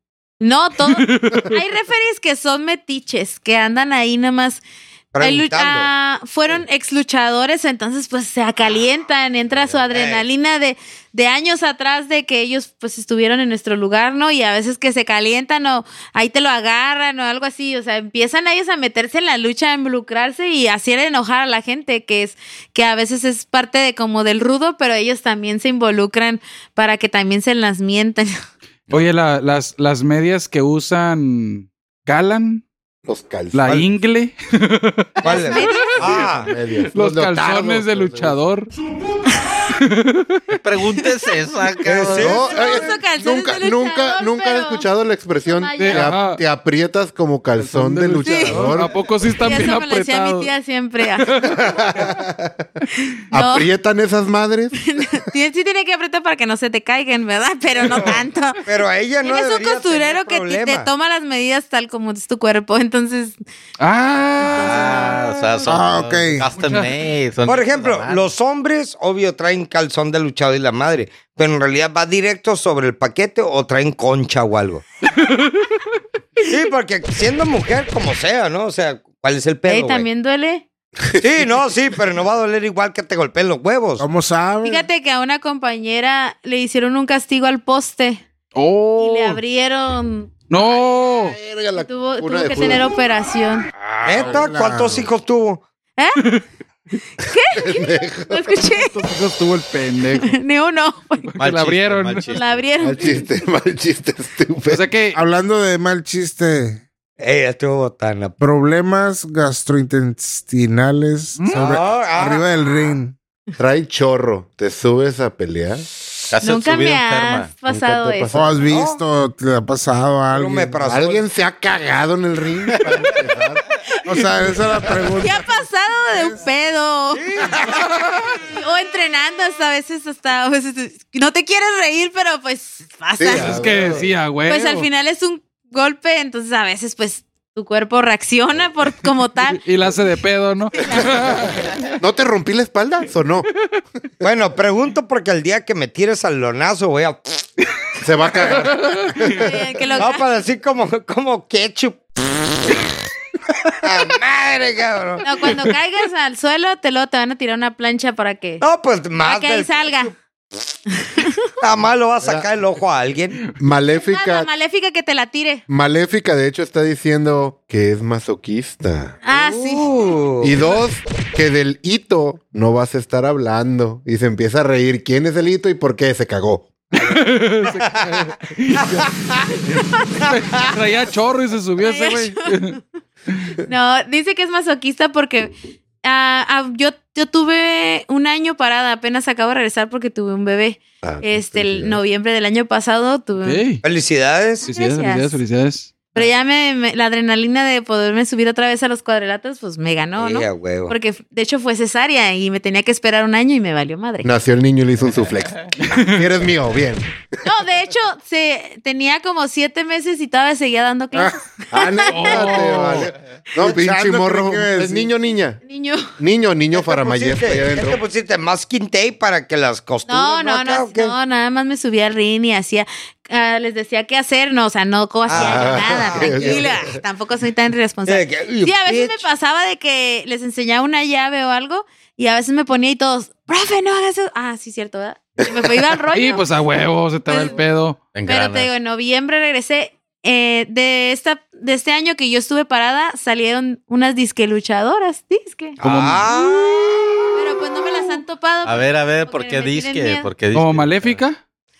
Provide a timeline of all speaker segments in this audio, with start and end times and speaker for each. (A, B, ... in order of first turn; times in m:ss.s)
0:00.4-0:04.6 A
0:01.1-0:01.4 B
0:05.1-0:05.9 C
0:05.2-0:28.3 A
0:09.9-0:10.2 C
0:28.9-0:32.6 B
0:33.0-0:33.6 D
0:33.5-0:35.8 B
0:35.2-0:36.5 C
0:35.2-0:36.2 A
0:36.0-0:38.4 D
0:36.9-0:38.7 B
0:39.7-0:40.5 B
0:40.6-0:42.4 E
0:41.8-0:42.8 C
0:42.1-0:48.9 D
0:42.5-0:44.8 A
0:45.4-0:46.1 A
0:45.8-0:46.4 B
0:47.6-0:50.5 B
0:48.2-0:48.8 A
0:49.4-0:51.3 A
0:51.2-0:52.1 B
0:51.5-0:52.6 D
0:53.3-0:53.7 A
0:53.3-0:55.0 D
0:54.9-0:58.6 A
0:58.6-1:00.9 C
0:59.2-1:03.4 A
1:03.8-1:05.2 B
1:04.4-1:05.2 A
1:04.4-1:08.3 E
1:05.6-1:06.5 F
1:06.5-1:07.0 B
1:07.4-1:14.8 C
1:15.2-1:15.5 B
1:16.5-1:20.0 C
1:19.6-1:20.6 A
1:21.2-1:24.0 C
1:24.0-1:24.8 F
1:24.6-1:28.2 A
1:28.5-1:29.4 B
1:29.0-1:30.3 A
1:30.5-1:31.4 B
1:31.2-1:32.9 D
1:31.7-1:33.7 A
1:34.0-1:35.6 C
1:34.1-1:35.0 F
1:34.2-1:35.1 D
1:37.2-1:39.0 A
1:37.6-1:38.6 D
1:38.8-1:40.4 B
1:40.2-1:41.2 A
1:41.3-1:42.3 B
1:41.4-1:42.6 E
1:42.3-1:43.2 A
1:42.8-1:44.8 D
1:44.7-1:45.2 B
1:45.1-1:46.8 F
1:47.2-1:48.4 C
1:48.4-1:53.1 F
1:51.5-1:52.5 C
1:53.6-1:55.9 D
1:56.3-1:57.5 E
1:56.4-1:58.3 A
1:57.7-1:58.6 D
1:58.3-2:00.8 F
1:58.6-1:59.0 C
2:00.3-2:01.2 C
2:00.8-2:03.6 D
2:04.0-2:06.4 F
2:05.2-2:07.2 A
2:07.1-2:07.8 C
2:07.7-2:08.3 B
2:08.4-2:13.6 A
2:13.2-2:14.1 D
2:13.3-2:14.9 B
2:14.5-2:19.6 A
2:19.6-2:21.7 B
2:20.8-2:21.2 A
2:22.0-2:23.5 D
2:24.2-2:27.5 C
2:28.0-2:29.6 D
2:28.8-2:29.2 B
2:29.3-2:30.2 A
2:30.0-2:32.8 C
2:33.8-2:35.6 C
2:35.2-2:38.6 A
2:38.6-2:40.1 C
2:39.2-2:40.1 A
2:41.0-2:41.3 A
2:41.6-2:43.4 C
2:42.2-2:42.5 D
2:43.6-2:44.5 D
2:44.0-2:45.6 A
2:45.7-2:49.2 D
2:49.2-2:49.9 A
2:49.3-2:50.6 C
2:50.4-2:56.7 D
2:56.9-2:59.1 B
2:57.8-2:59.5 C
2:59.6-3:02.8 B
3:00.2-3:00.7 C
3:01.8-3:02.8 A
3:03.6-3:05.5 A
3:06.0-3:13.6 A
3:11.0-3:12.0 D
3:13.4-3:13.8 B
3:13.8-3:14.7 C
3:14.6-3:15.9 B
3:14.7-3:15.4 A
3:16.1-3:24.3 A
3:20.2-3:20.9 C
3:24.2-3:27.1 D
3:25.8-3:26.2 B
3:27.4-3:32.6 A
3:31.7-3:35.6 D
3:32.1-3:33.1 B
3:33.6-3:35.1 F
3:35.6-3:36.1 A
3:36.2-3:38.0 D
3:36.7-3:41.1 C
3:40.1-3:56.4 A
3:45.3-3:46.7 C
3:45.3-3:46.9 D
3:48.0-3:49.2 C
3:56.1-3:58.0 B
3:57.3-3:57.6 A
3:58.1-3:58.7 E
3:58.2-4:05.8 A
4:05.8-4:06.3 B
4:05.8-4:07.3 C
4:07.3-4:10.3 A
4:08.6-4:11.2 E
4:10.5-4:11.4 B